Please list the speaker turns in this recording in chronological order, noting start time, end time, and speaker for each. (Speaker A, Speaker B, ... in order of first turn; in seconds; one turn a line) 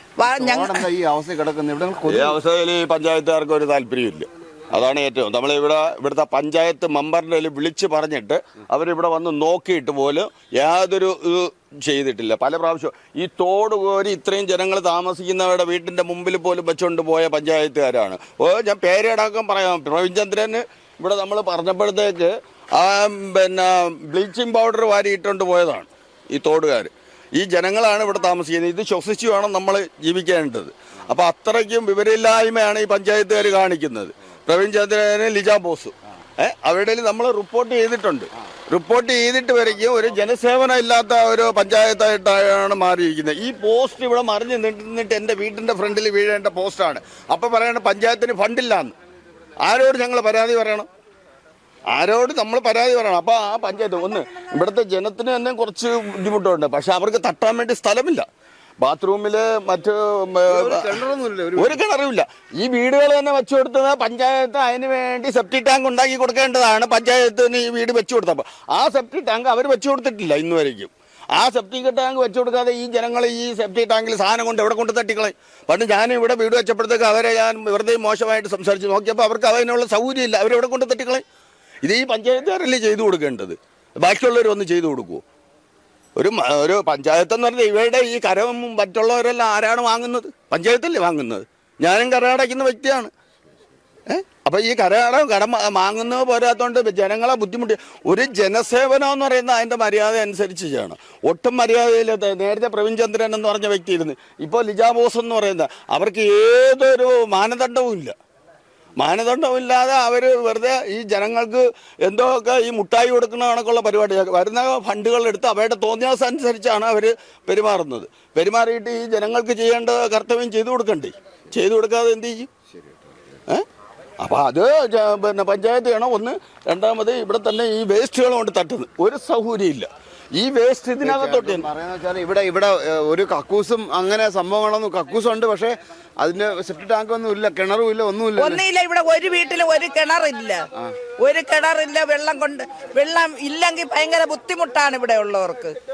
Speaker A: 0.2-0.9
Speaker B: 0.2-2.4
Speaker C: 2.1-48.9
Speaker C: 49.6-50.9
Speaker C: 51.9-58.2
Speaker C: 58.8-61.0
Speaker B: 60.5-61.8
Speaker C: 61.6-81.2
Speaker C: 81.8-85.2
Speaker C: 86.2-93.1
Speaker C: 94.1-108.1
Speaker C: 109.0-122.5
Speaker B: 122.7-123.1
Speaker C: 124.2-131.7
Speaker B: 131.0-138.6
Speaker A: 138.4-140.7
Speaker A: 141.2-145.8